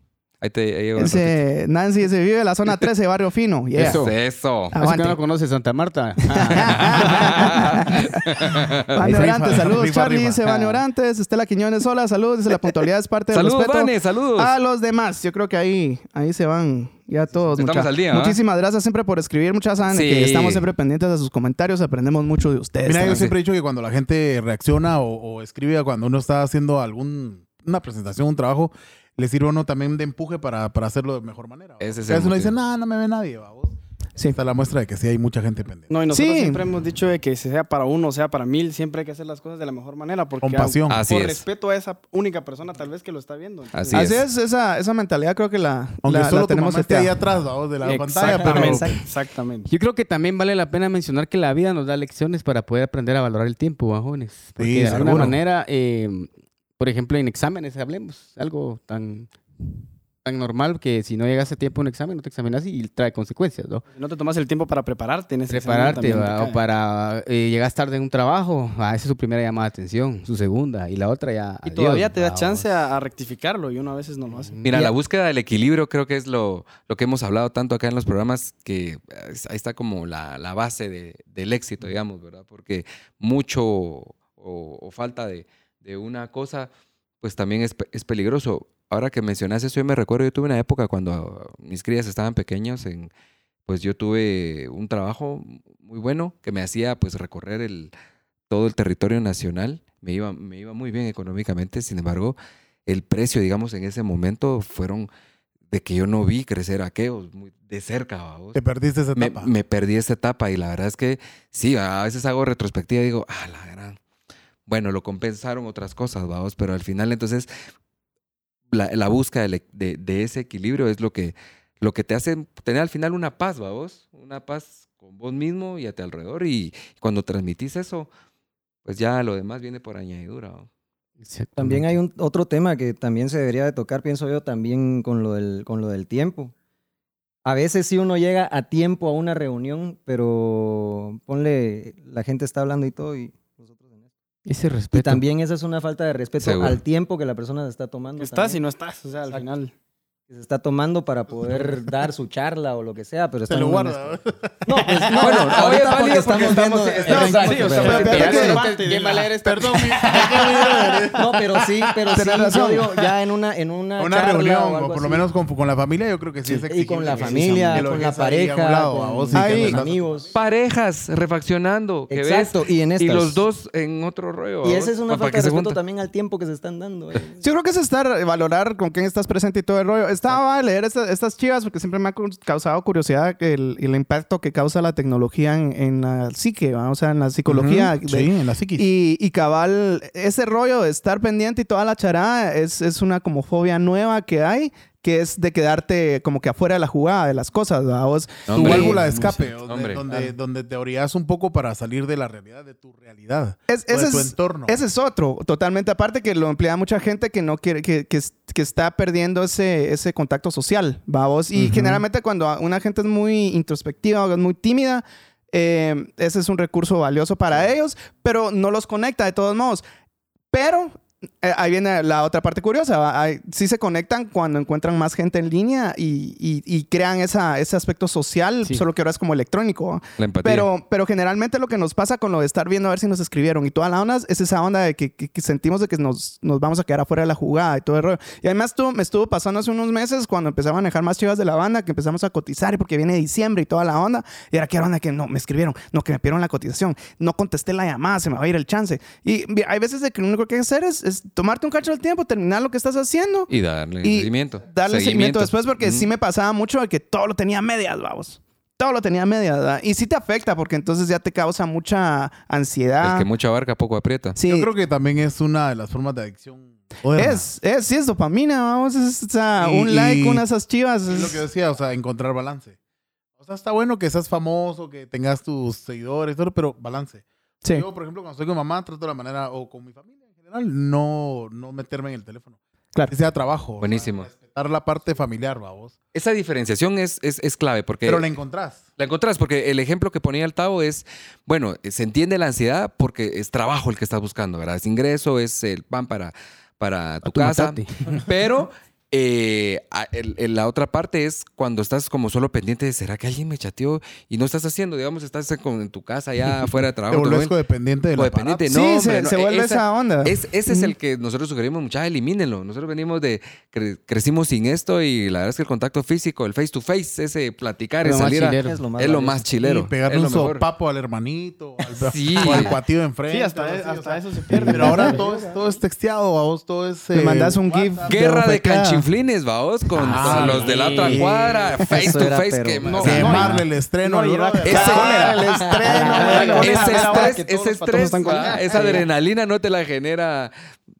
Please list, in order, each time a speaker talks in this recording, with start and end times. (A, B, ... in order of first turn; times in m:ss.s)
0:00.4-0:01.4 A
0:01.0-0:04.1 B
0:03.8-0:04.2 C
0:03.8-0:04.8 A
0:04.7-0:05.2 B
0:04.8-0:07.9 C
0:06.3-0:23.2 B
0:06.6-0:08.9 A
0:09.0-0:10.4 D
0:10.5-0:10.8 C
0:13.3-0:14.5 A
0:17.6-0:18.4 A
0:19.9-0:20.7 A
0:22.8-0:35.9 D
0:23.1-0:23.4 A
0:31.8-0:32.5 A
0:35.9-0:44.1 E
0:36.1-0:36.6 B
0:40.4-0:41.0 D
0:40.9-0:41.4 A
0:43.7-0:44.2 A
0:43.9-0:47.1 B
0:46.0-0:49.0 D
0:47.8-0:49.7 E
0:48.2-0:49.0 F
0:49.7-1:03.8 C
0:54.6-0:55.4 D
1:03.9-1:06.6 E
1:05.5-1:12.7 C
1:11.6-1:14.6 E
1:14.5-1:14.9 C
1:14.6-1:26.7 A
1:27.2-1:33.1 A
1:33.7-1:37.9 A
1:38.5-1:45.1 A
1:45.7-1:48.6 A
1:48.6-1:49.5 D
1:49.2-1:54.0 A
1:54.7-1:57.5 A
1:58.7-2:08.1 A
2:08.8-2:10.7 A
2:11.2-2:12.0 C
2:11.6-2:16.5 F
2:17.4-2:24.1 F
2:24.5-2:25.2 C
2:24.9-2:28.6 F
2:26.4-2:26.8 A
2:28.2-2:29.7 E
2:30.3-2:38.7 F
2:31.3-2:31.8 D
2:33.5-2:38.3 D
2:35.2-2:36.8 A
2:37.1-2:38.6 B
2:37.1-2:39.4 E
2:37.8-2:40.0 C
2:39.4-2:41.7 D
2:40.1-2:40.5 F
2:41.1-2:45.2 F
2:42.1-2:42.9 B
2:44.0-2:50.4 D
2:46.4-2:50.3 F
2:49.3-2:49.8 B
2:50.3-2:55.8 A
2:52.1-2:53.4 F
2:54.6-2:57.4 F
2:57.4-3:19.0 B
3:07.5-3:08.9 D
3:18.5-3:20.0 A
3:18.5-3:24.8 D
3:23.7-3:39.8 B
3:31.6-3:32.0 C
3:40.5-4:13.5 B
3:50.2-3:50.7 A
4:13.5-4:16.1 A
4:14.0-4:23.3 B
4:23.0-4:24.4 A
4:24.4-4:24.7 B
4:24.5-4:27.5 D
4:27.2-4:31.4 B
4:29.6-4:30.4 D
4:31.1-4:32.8 D
4:33.4-4:42.6 D
4:43.1-4:46.0 D
4:43.8-4:44.3 A
4:46.1-4:48.3 A
4:48.0-4:48.8 D
4:49.0-5:07.6 A
4:57.2-4:58.2 C
5:07.1-5:08.7 D
5:08.2-5:20.6 A
5:08.7-5:10.9 B
5:18.0-5:18.8 C
5:18.6-5:19.5 F
5:19.6-5:28.2 D
5:22.0-5:22.8 A
5:23.3-5:25.6 E
5:24.5-5:25.2 B
5:24.7-5:25.2 F
5:27.1-5:29.1 B
5:28.1-5:33.6 A
5:30.0-5:31.4 C
5:30.0-5:31.2 D
5:31.0-5:33.5 F
5:32.8-5:33.6 C
5:33.0-5:37.0 D
5:34.0-5:35.4 E
5:34.6-5:35.3 A
5:34.6-5:37.2 B
5:35.5-5:37.1 F
5:36.1-5:39.1 E
5:36.2-5:40.5 A
5:38.7-5:39.0 F